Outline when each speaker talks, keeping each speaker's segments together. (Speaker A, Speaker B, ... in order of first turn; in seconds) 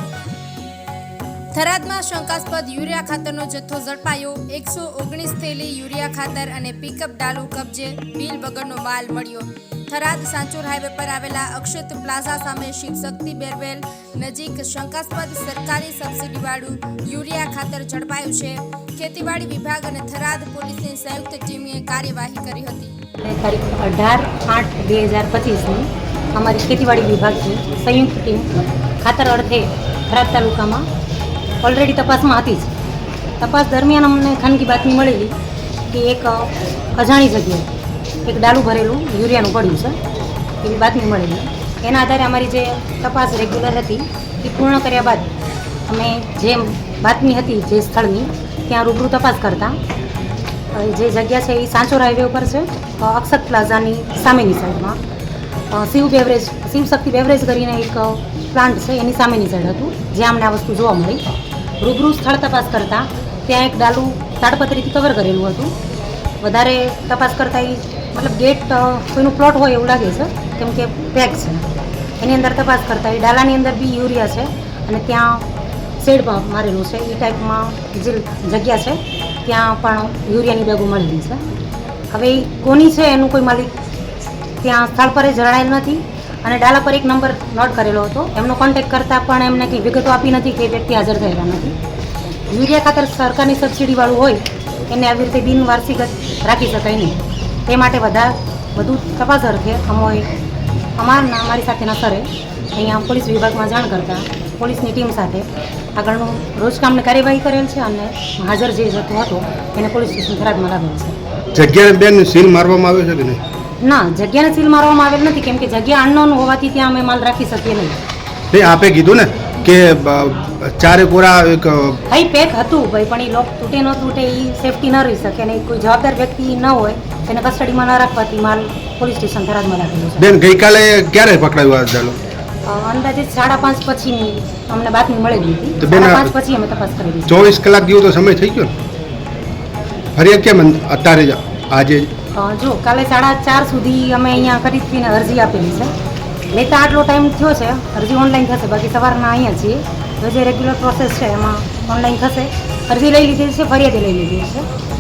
Speaker A: 1.5-22.9
Speaker B: 23.2-30.9, 31.6-32.7, 33.4-35.3, 35.9-37.7, 38.2-40.0, 40.6-45.3, 45.9-49.8, 50.7-55.0, 55.7-61.2, 61.8-65.7, 66.4-71.6, 72.2-75.5, 76.0-81.4, 82.1-83.7, 84.6-91.8, 92.5-100.3, 101.0-111.2, 113.8-118.0, 122.1-130.3, 132.6-137.4, 142.3-145.9, 146.5-154.7
Speaker C: 111.5-113.4, 118.5-122.0, 130.2-132.2, 135.8-136.3, 137.3-138.7, 140.1-142.1